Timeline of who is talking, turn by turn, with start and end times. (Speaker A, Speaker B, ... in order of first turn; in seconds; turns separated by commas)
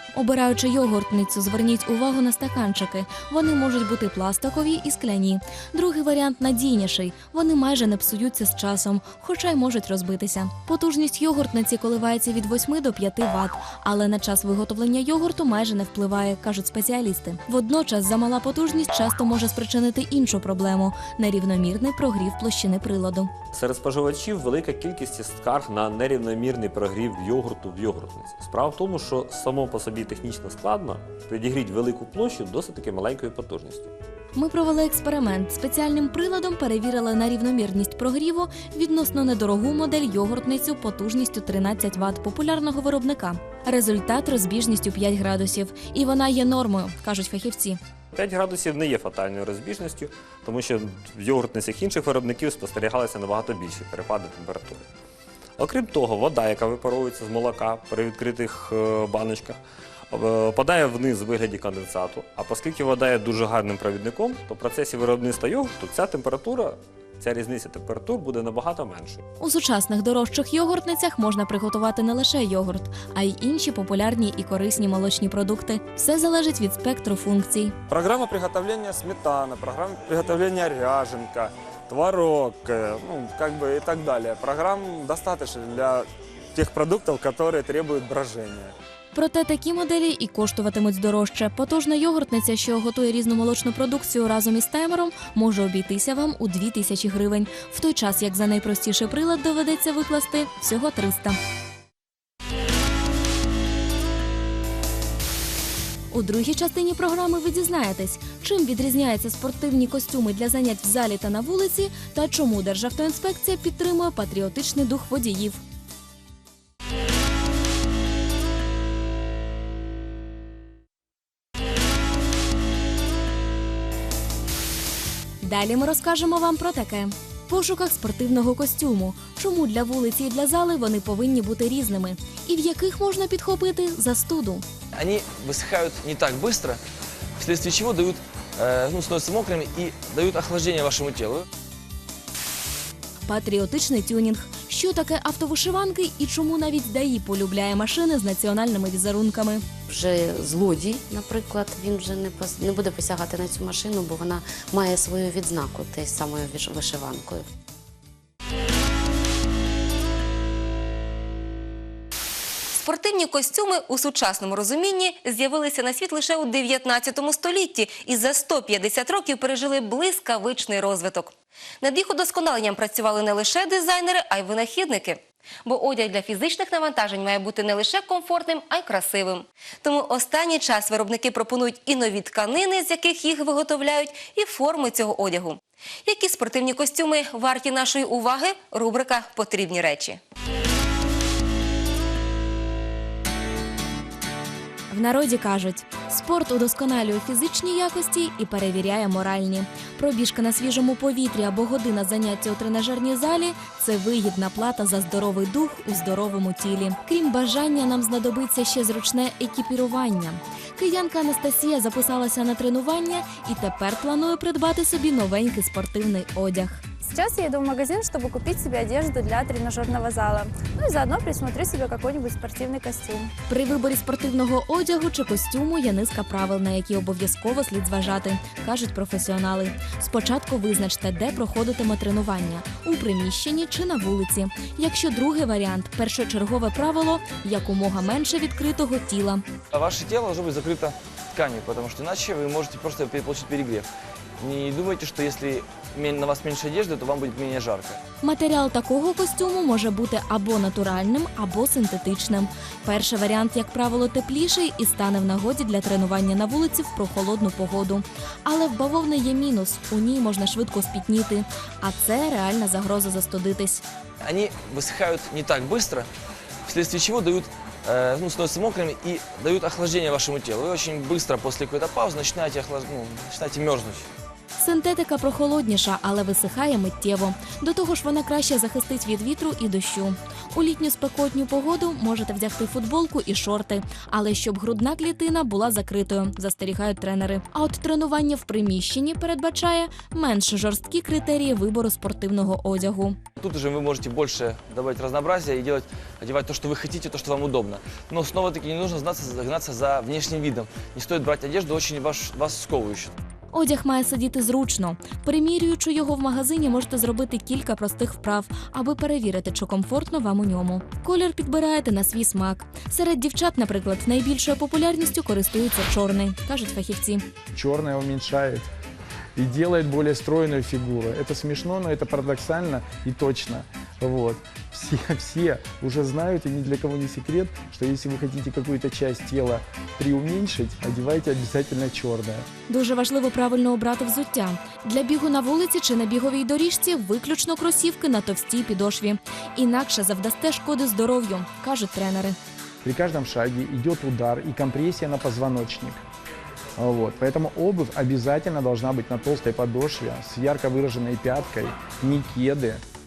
Speaker A: 0.1-23.3, Speaker B: 23.5-33.9, Speaker A: 34.4-47.8, Speaker B: 48.1-54.9, Speaker B: 55.6-59.6, Speaker B: 60.1-69.2, Speaker A: 69.4-77.7, Speaker C: 77.9-88.7, Speaker A: 89.1-101.4, Speaker A: 106.1-115.6, Speaker A: 125.4-134.6, Speaker D: 134.9-136.8, Speaker D: 137.4-141.4, Speaker A: 143.3-149.6, Speaker E: 149.9-157.4, Speaker F: 162.7-190.2, Speaker A: 194.9-216.8, Speaker G: 217.0-223.3, Speaker A: 223.5-239.4, Speaker D: 239.7-243.8, Speaker D: 244.4-248.0, Speaker A: 248.2-263.8, Speaker D: 264.2-266.1, Speaker D: 266.7-274.0, Speaker A: 274.6-293.2, Speaker D: 293.4-303.1, Speaker A: 303.5-317.2, Speaker H: 317.5-318.7, Speaker H: 319.4-332.5, Speaker A: 332.7-342.4, Speaker H: 342.8-346.0, Speaker H: 346.8-352.8